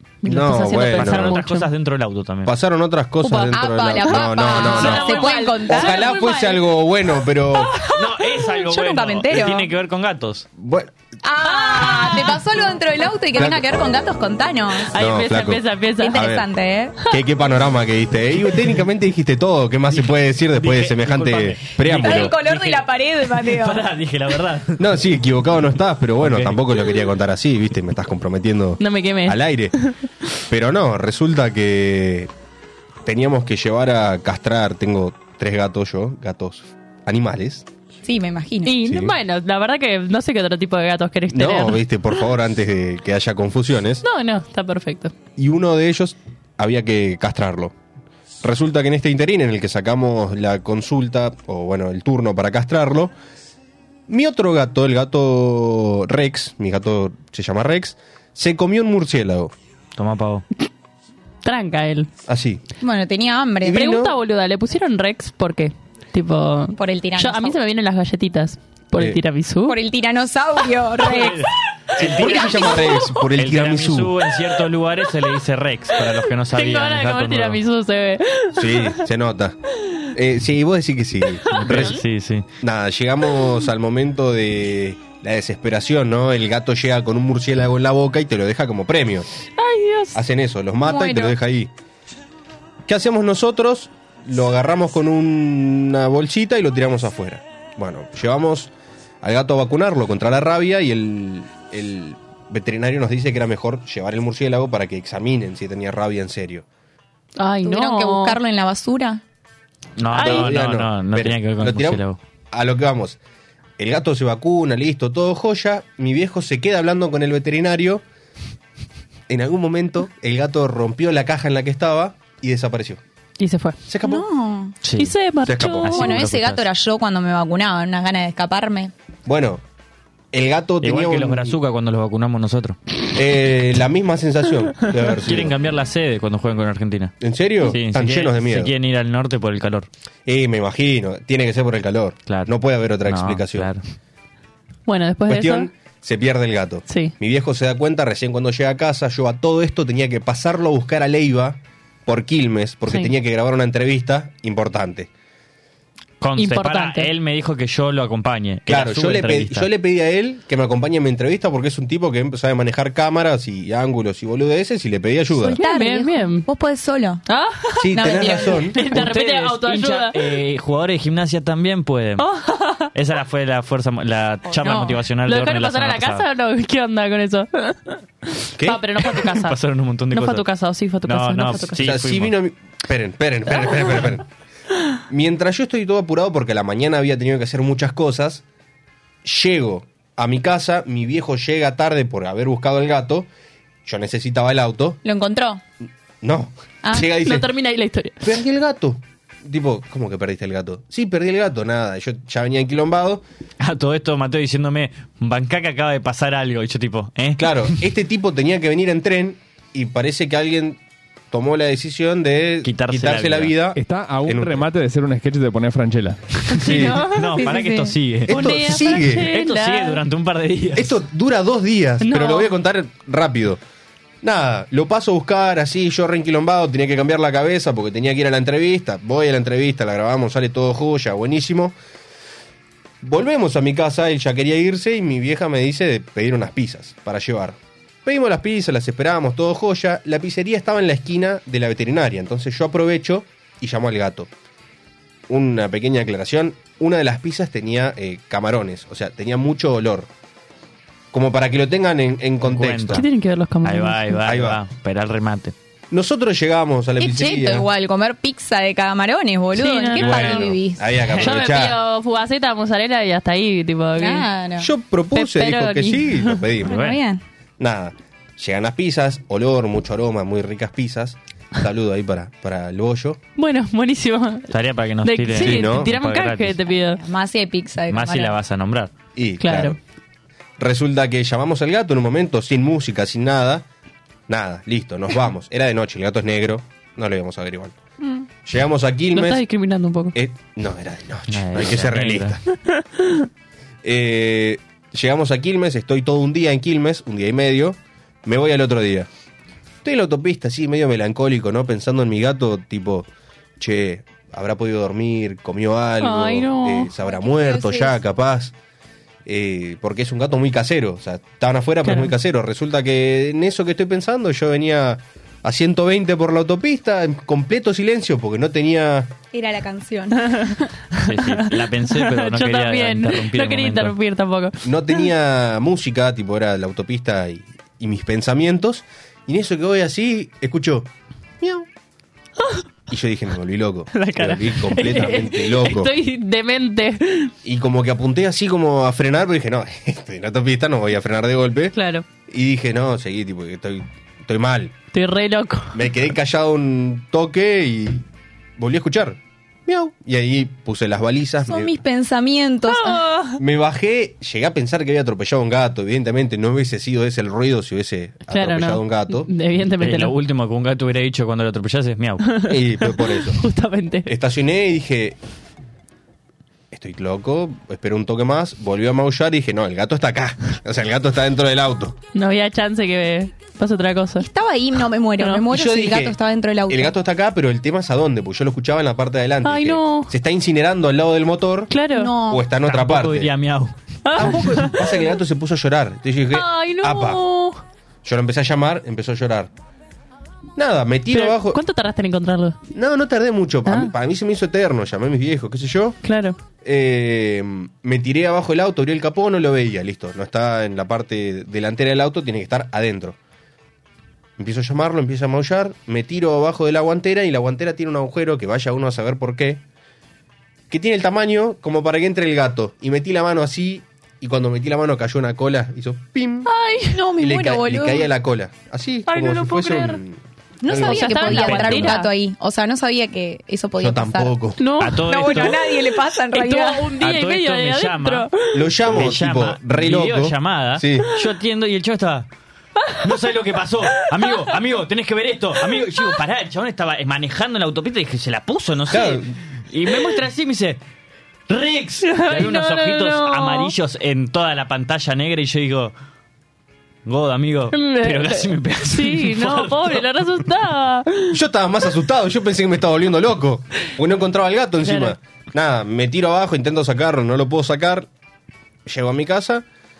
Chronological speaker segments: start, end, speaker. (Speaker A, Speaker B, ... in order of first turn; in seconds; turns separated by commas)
Speaker A: 0.2-1.7, Speaker B: 0.2-1.4, Speaker C: 0.9-2.5, Speaker B: 2.5-7.8, Speaker A: 3.2-6.2, Speaker D: 3.5-6.6, Speaker C: 4.8-5.1, Speaker C: 7.9-10.5, Speaker D: 8.4-9.7, Speaker B: 10.6-10.9, Speaker D: 11.2-14.9, Speaker A: 11.4-12.4, Speaker B: 13.3-13.8, Speaker A: 14.9-16.2, Speaker B: 14.9-16.5, Speaker D: 16.0-16.9, Speaker B: 17.0-22.3, Speaker C: 19.9-24.8, Speaker D: 21.8-23.9, Speaker B: 24.8-29.7, Speaker C: 26.2-26.6, Speaker A: 28.8-29.9, Speaker B: 30.5-32.3, Speaker B: 33.0-37.6, Speaker D: 38.0-38.8, Speaker A: 38.6-41.8, Speaker B: 38.8-39.1, Speaker B: 41.3-44.0, Speaker A: 44.0-45.1, Speaker B: 45.4-47.7, Speaker B: 48.4-53.1, Speaker B: 54.1-59.5, Speaker C: 60.0-60.4, Speaker A: 61.4-62.1, Speaker B: 62.2-62.6, Speaker D: 62.8-63.8, Speaker B: 63.6-64.1, Speaker A: 63.7-69.8, Speaker D: 66.8-67.6, Speaker D: 69.7-73.0, Speaker C: 71.0-77.6, Speaker B: 72.0-74.1, Speaker A: 72.7-72.9, Speaker A: 76.5-79.0, Speaker B: 78.5-79.5, Speaker B: 80.1-82.0, Speaker A: 81.5-81.9, Speaker C: 81.5-82.4, Speaker B: 82.6-89.3, Speaker A: 89.6-90.2, Speaker B: 90.1-91.7, Speaker D: 90.8-91.3, Speaker B: 92.9-106.6, Speaker A: 107.4-108.4, Speaker D: 107.6-109.2, Speaker C: 110.0-112.2, Speaker A: 110.1-110.5, Speaker B: 110.1-113.2, Speaker B: 113.8-118.0, Speaker B: 119.3-123.0, Speaker A: 123.4-123.8, Speaker B: 123.9-124.2, Speaker D: 124.0-124.8, Speaker C: 124.8-125.1, Speaker A: 125.0-126.2, Speaker B: 125.4-125.9, Speaker C: 125.8-126.7, Speaker D: 125.9-128.9, Speaker B: 129.3-129.6, Speaker B: 130.3-131.6, Speaker C: 130.8-132.8, Speaker B: 133.1-135.5, Speaker C: 135.0-139.9, Speaker B: 137.2-138.7, Speaker B: 140.2-143.7, Speaker C: 143.1-143.8, Speaker A: 144.8-145.7, Speaker B: 145.3-155.1, Speaker A: 146.9-147.1, Speaker C: 156.2-159.7, Speaker A: 156.4-157.1, Speaker B: 158.7-165.6, Speaker D: 165.3-167.2, Speaker A: 165.6-166.5, Speaker A: 167.2-170.2, Speaker B: 167.8-168.9, Speaker D: 167.9-168.8, Speaker C: 168.9-172.3, Speaker A: 172.2-172.9, Speaker C: 172.9-176.2, Speaker D: 174.6-175.0, Speaker A: 175.2-179.6, Speaker B: 178.6-178.8, Speaker C: 179.1-180.4, Speaker A: 180.1-181.8, Speaker C: 181.0-182.3, Speaker B: 181.8-184.2, Speaker B: 185.1-188.4, Speaker B: 189.2-193.3, Speaker B: 193.8-195.0, Speaker D: 195.0-195.6, Speaker B: 196.2-197.5, Speaker A: 197.0-198.3, Speaker B: 198.2-203.2, Speaker C: 203.6-207.8, Speaker B: 207.4-210.8, Speaker B: 211.3-214.7, Speaker C: 212.6-213.5, Speaker E: 213.7-216.4, Speaker A: 216.5-217.5, Speaker C: 216.5-220.9, Speaker B: 216.6-217.0, Speaker D: 217.4-217.9, Speaker B: 218.3-219.3, Speaker A: 218.3-220.0, Speaker B: 220.8-223.6, Speaker A: 222.0-222.5, Speaker B: 224.2-231.8, Speaker B: 233.0-244.3, Speaker B: 245.3-250.1, Speaker B: 251.1-253.0, Speaker C: 252.4-253.1, Speaker A: 252.9-254.2, Speaker C: 253.6-255.5, Speaker B: 254.2-254.6, Speaker B: 255.9-257.7, Speaker D: 257.0-260.8, Speaker A: 259.6-260.4, Speaker B: 260.0-261.8, Speaker A: 261.2-264.2, Speaker D: 263.9-264.7, Speaker B: 264.6-266.8, Speaker A: 265.1-266.4, Speaker D: 266.6-267.2, Speaker C: 266.7-267.0, Speaker B: 267.6-273.2, Speaker A: 273.4-274.5, Speaker C: 274.5-276.6, Speaker A: 275.0-277.0, Speaker B: 275.4-275.9, Speaker D: 276.7-278.3, Speaker C: 277.9-278.9, Speaker B: 279.1-279.8, Speaker A: 279.4-279.8, Speaker B: 280.6-283.6, Speaker B: 284.3-287.8, Speaker B: 288.4-289.4, Speaker A: 289.1-290.1, Speaker B: 290.1-292.4, Speaker C: 291.3-292.4, Speaker A: 292.7-293.2, Speaker B: 293.8-299.1, Speaker B: 299.8-303.1, Speaker B: 303.6-308.5, Speaker A: 306.0-306.9, Speaker D: 307.0-307.9, Speaker B: 309.2-319.1, Speaker A: 311.8-312.1, Speaker D: 319.3-320.6, Speaker A: 320.2-325.1, Speaker C: 321.0-323.9, Speaker B: 324.6-330.9, Speaker B: 331.4-331.7, Speaker B: 332.9-335.9, Speaker A: 333.9-337.3, Speaker B: 337.4-341.7, Speaker A: 341.7-342.0, Speaker B: 342.3-344.7, Speaker A: 344.9-345.8, Speaker B: 345.7-348.0, Speaker B: 348.6-351.8, Speaker D: 351.4-353.0, Speaker A: 352.7-353.4, Speaker B: 353.4-359.3, Speaker A: 358.3-360.1, Speaker C: 359.8-362.3, Speaker A: 362.3-364.1, Speaker B: 362.5-363.4, Speaker B: 364.1-365.2, Speaker B: 366.7-371.9, Speaker A: 372.1-374.2, Speaker D: 374.2-376.9, Speaker A: 375.2-375.4, Speaker B: 375.5-381.7, Speaker A: 379.4-380.1, Speaker A: 381.7-382.1, Speaker D: 381.9-382.4, Speaker B: 382.3-383.3, Speaker C: 382.6-383.7, Speaker A: 384.0-384.9, Speaker B: 384.1-387.2, Speaker A: 386.3-387.6, Speaker B: 388.0-389.5, Speaker B: 390.6-391.6, Speaker A: 391.1-392.6, Speaker B: 392.7-396.0, Speaker A: 393.6-393.9, Speaker A: 396.0-396.4, Speaker B: 396.6-403.2, Speaker B: 404.4-409.6, Speaker B: 410.7-416.5, Speaker A: 416.4-417.0, Speaker D: 416.9-418.1, Speaker B: 417.2-421.3, Speaker A: 419.1-420.0, Speaker D: 420.6-424.3, Speaker A: 420.7-422.1, Speaker C: 421.3-421.9, Speaker B: 423.8-424.6, Speaker A: 424.6-425.8, Speaker C: 424.8-425.6, Speaker D: 425.0-426.9, Speaker A: 426.3-428.7, Speaker C: 427.0-428.3, Speaker B: 428.5-431.1, Speaker C: 428.9-432.3, Speaker C: 433.0-440.8, Speaker A: 434.0-434.5, Speaker B: 438.9-439.3, Speaker C: 441.5-445.9, Speaker A: 442.0-443.7, Speaker C: 447.0-450.3, Speaker A: 447.7-451.4, Speaker B: 451.3-458.1, Speaker A: 454.8-455.1, Speaker B: 458.9-459.6